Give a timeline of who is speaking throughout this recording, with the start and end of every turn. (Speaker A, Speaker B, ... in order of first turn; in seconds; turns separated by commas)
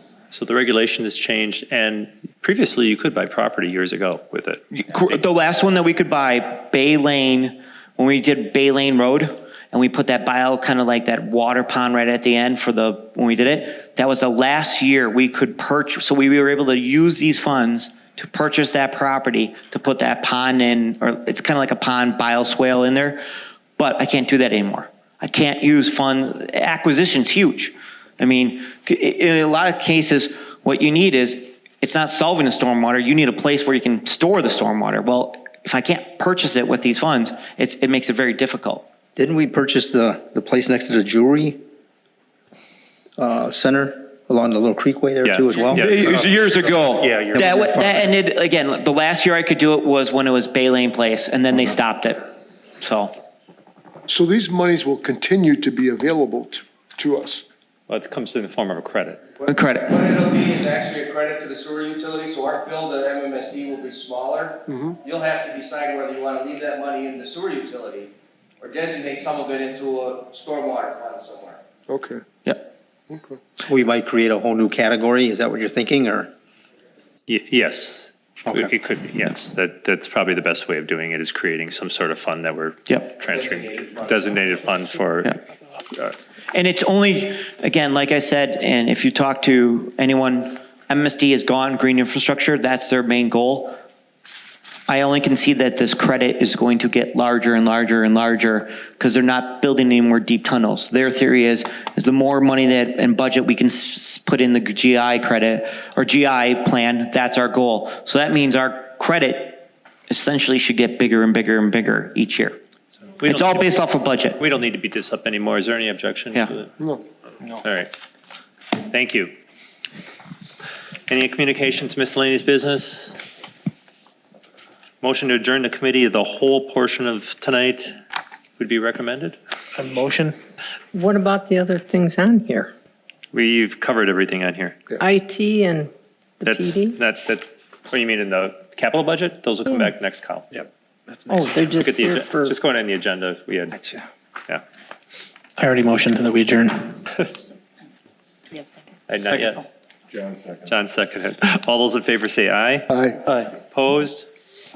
Speaker A: 0.3-5.2, Speaker B: 4.7-23.2, Speaker B: 23.8-38.9, Speaker C: 39.2-41.6, Speaker C: 43.2-46.3, Speaker A: 45.2-48.0, Speaker B: 45.7-52.3, Speaker C: 47.0-47.9, Speaker B: 52.8-53.1, Speaker D: 54.1-57.5, Speaker A: 57.9-59.2, Speaker B: 59.5-60.0, Speaker E: 59.9-71.6, Speaker D: 64.7-65.0, Speaker D: 71.9-72.2, Speaker D: 73.1-73.4, Speaker C: 73.6-76.3, Speaker A: 77.3-85.4, Speaker B: 86.5-93.8, Speaker B: 94.9-112.6, Speaker A: 113.2-113.7, Speaker B: 113.2-114.4, Speaker A: 114.4-116.7, Speaker A: 117.6-117.9, Speaker A: 118.8-119.3, Speaker A: 121.1-123.2, Speaker A: 125.0-127.9, Speaker A: 128.6-129.4, Speaker F: 129.8-130.4, Speaker G: 130.9-132.7, Speaker A: 133.3-134.8, Speaker G: 135.0-137.0, Speaker A: 136.4-140.5, Speaker G: 141.3-142.5, Speaker A: 141.6-143.8, Speaker F: 145.6-146.9, Speaker A: 149.1-149.6, Speaker A: 150.7-154.3, Speaker D: 152.9-153.2